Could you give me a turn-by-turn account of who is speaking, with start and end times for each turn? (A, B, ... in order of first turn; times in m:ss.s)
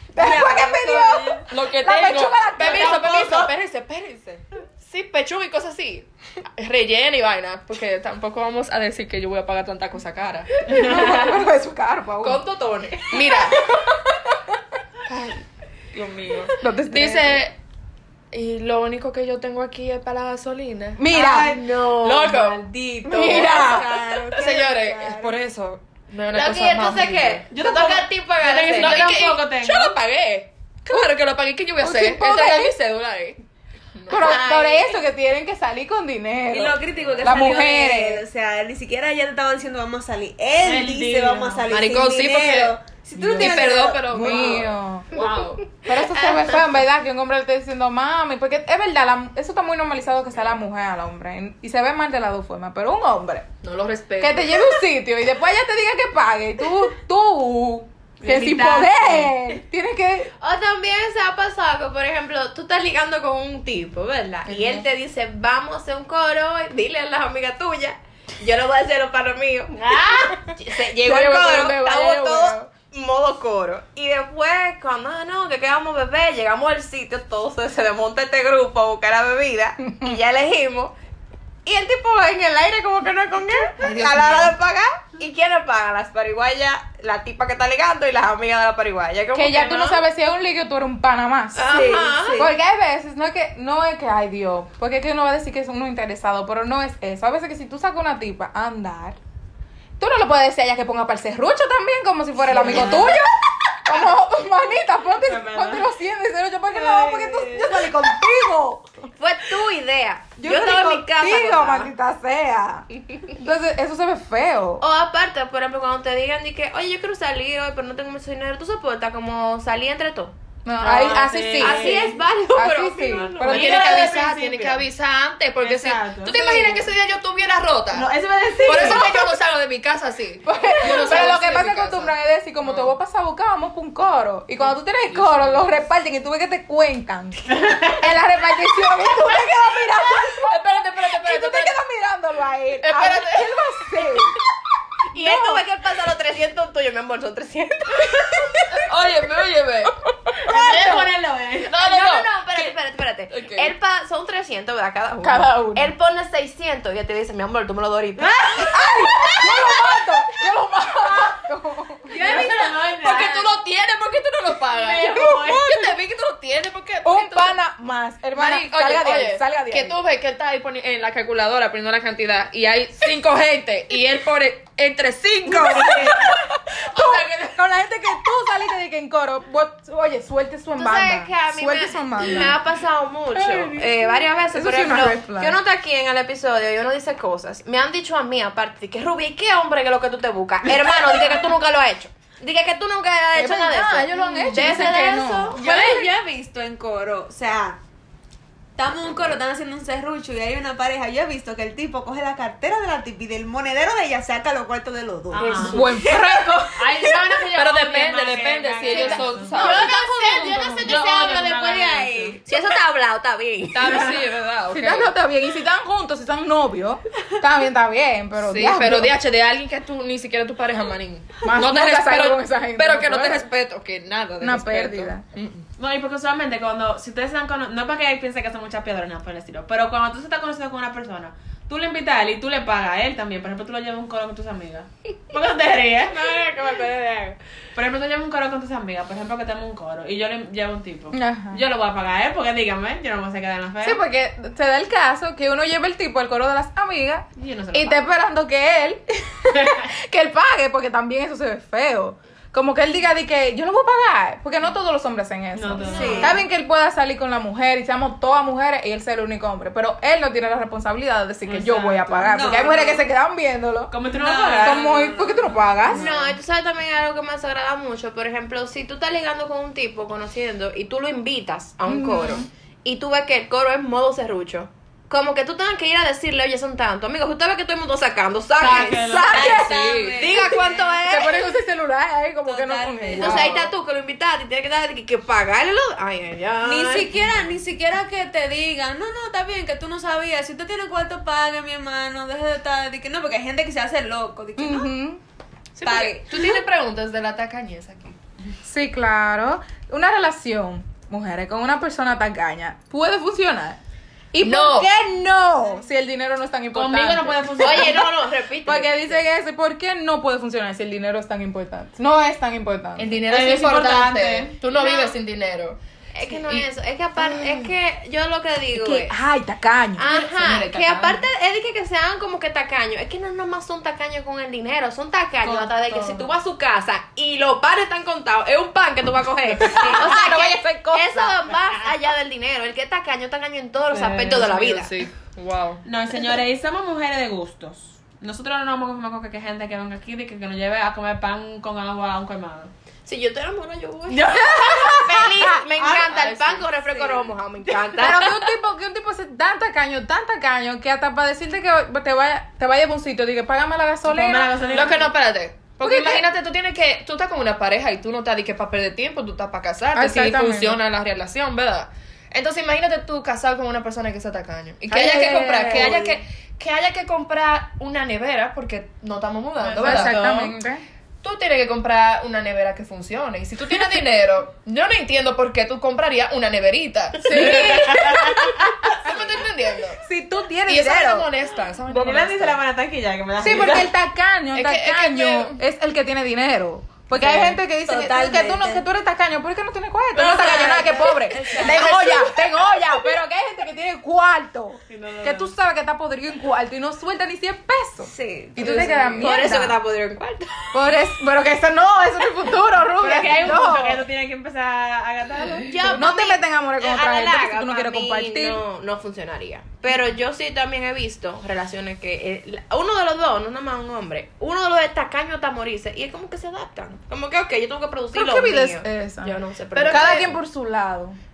0:00.1-0:03.5 A
0:00.2-0:11.1 B
0:00.4-0:01.4 C
0:10.7-0:11.4 D
0:10.7-0:12.4 A
0:12.2-0:13.8 B
0:13.1-0:14.6 A
0:15.1-0:17.6 B
0:16.6-0:17.4 A
0:18.3-0:27.5 B
0:21.0-0:21.6 A
0:21.1-0:22.4 E
0:23.1-0:23.9 A
0:23.1-0:25.4 C
0:26.3-0:29.1 E
0:27.5-0:30.0 D
0:28.7-0:33.4 B
0:31.8-0:32.8 A
0:34.0-0:34.4 B
0:34.1-0:38.2 A
0:34.1-0:35.0 E
0:36.5-0:44.6 C
0:40.6-0:41.7 D
0:41.7-0:42.8 B
0:43.2-0:45.1 A
0:43.3-0:45.7 B
0:45.2-0:46.6 E
0:45.8-0:53.5 A
0:53.6-0:54.8 B
0:54.2-1:00.3 A
0:58.2-0:59.3 D
1:00.4-1:21.0 E
1:04.5-1:04.8 A
1:10.3-1:12.7 A
1:19.9-1:20.2 A
1:21.6-1:30.0 E
1:23.8-1:24.5 B
1:29.3-1:31.7 A
1:31.6-1:32.6 E
1:31.7-1:32.5 C
1:32.3-1:39.2 A
1:40.0-1:43.3 A
1:42.5-1:43.0 E
1:42.6-1:43.2 D
1:43.8-1:49.1 A
1:45.1-1:45.9 D
1:46.9-1:47.6 B
1:49.2-1:51.9 E
1:50.4-1:54.8 A
1:54.8-2:00.4 E
2:00.6-2:04.1 A
2:00.8-2:02.2 D
2:01.6-2:03.5 E
2:03.3-2:12.9 B
2:03.4-2:04.9 D
2:05.6-2:06.7 D
2:07.9-2:09.3 D
2:10.4-2:24.4 A
2:10.9-2:11.2 D
2:15.1-2:15.6 B
2:17.5-2:18.0 D
2:19.9-2:21.8 B
2:22.8-2:24.3 B
2:25.1-2:28.8 E
2:25.1-2:25.6 A
2:28.9-2:29.9 B
2:30.2-2:31.1 A
2:30.4-2:31.8 D
2:31.7-2:32.7 B
2:31.7-2:38.7 E
2:33.3-2:33.7 B
2:35.2-2:35.9 A
2:38.2-2:38.8 D
2:38.7-2:42.4 A
2:39.2-2:40.0 B
2:42.1-2:47.6 B
2:42.1-2:43.5 D
2:44.7-2:45.8 D
2:47.0-2:50.0 A
2:48.4-2:57.6 B
2:55.5-3:02.6 A
3:00.8-3:16.0 E
3:03.3-3:05.6 A
3:13.4-3:15.6 A
3:14.5-3:14.8 B
3:15.5-3:17.8 C
3:15.8-3:16.0 B
3:18.8-3:26.5 C
3:25.3-3:25.9 D
3:25.4-3:25.9 B
3:25.7-3:27.0 A
3:26.7-3:29.9 D
3:27.5-3:31.0 B
3:28.9-3:29.4 C
3:28.9-3:34.2 E
3:29.6-3:30.9 A
3:30.8-3:32.4 D
3:33.7-3:35.1 B
3:34.7-3:39.1 A
3:38.4-3:45.6 B
3:41.4-3:43.4 A
3:44.4-3:45.2 A
3:45.8-3:56.3 D
3:56.1-3:57.4 E
3:57.7-4:04.0 D
4:01.1-4:01.6 A
4:03.8-4:23.9 A
4:07.4-4:08.0 D
4:09.5-4:09.9 D
4:15.6-4:16.4 D
4:15.8-4:16.4 C
4:16.0-4:16.3 E
4:21.5-4:22.3 D
4:22.2-4:23.1 C
4:23.9-4:25.0 D
4:24.1-4:26.2 C
4:24.6-4:26.0 A
4:25.9-4:41.4 E
4:31.9-4:32.5 A
4:38.6-4:39.7 D
4:39.2-4:40.8 C
4:39.3-4:40.2 A
4:39.8-4:40.6 B
4:41.0-4:43.6 A
4:42.4-4:43.7 C
4:43.2-4:47.1 E
4:46.6-4:54.9 C
4:54.6-4:55.2 A
4:55.8-4:56.1 A
4:55.8-4:56.2 C
4:55.9-4:58.2 B
4:58.6-5:03.8 A
5:04.3-5:08.1 A
5:04.4-5:04.9 B
5:06.7-5:08.1 D
5:07.6-5:09.2 E
5:08.6-5:13.2 A
5:13.0-5:15.8 B
5:13.3-5:14.6 D
5:14.7-5:15.2 E
5:16.2-5:19.2 E
5:18.8-5:20.1 A
5:20.0-5:35.0 E
5:20.0-5:21.2 B
5:25.4-5:26.3 D
5:29.6-5:31.4 A
5:33.9-5:34.4 D
5:34.3-5:35.8 B
5:35.8-5:42.7 D
5:43.1-5:48.4 E
5:44.6-5:45.6 A
5:45.8-5:46.6 B
5:46.9-5:47.2 C
5:48.0-5:54.8 A
5:54.0-5:55.1 D
5:54.7-6:10.5 B
5:55.8-5:56.2 A
5:59.9-6:00.8 A
6:04.9-6:06.1 A
6:09.6-6:10.5 D
6:09.8-6:10.8 A
6:11.2-6:18.2 B
6:17.2-6:18.5 A
6:17.3-6:18.9 D
6:18.9-6:20.0 B
6:19.0-6:19.4 A
6:20.0-6:21.3 A
6:20.7-6:22.6 B
6:21.9-6:23.9 D
6:23.4-6:39.8 A
6:24.5-6:25.6 B
6:27.3-6:27.5 B
6:27.8-6:28.8 C
6:30.2-6:31.9 B
6:30.2-6:32.2 C
6:30.4-6:30.7 E
6:31.5-6:32.2 E
6:34.9-6:35.5 D
6:38.2-6:40.7 E
6:40.7-6:44.0 A
6:43.0-6:46.0 D
6:45.7-7:00.3 E
6:45.9-6:48.6 A
6:58.1-7:01.2 A
6:59.8-7:00.3 B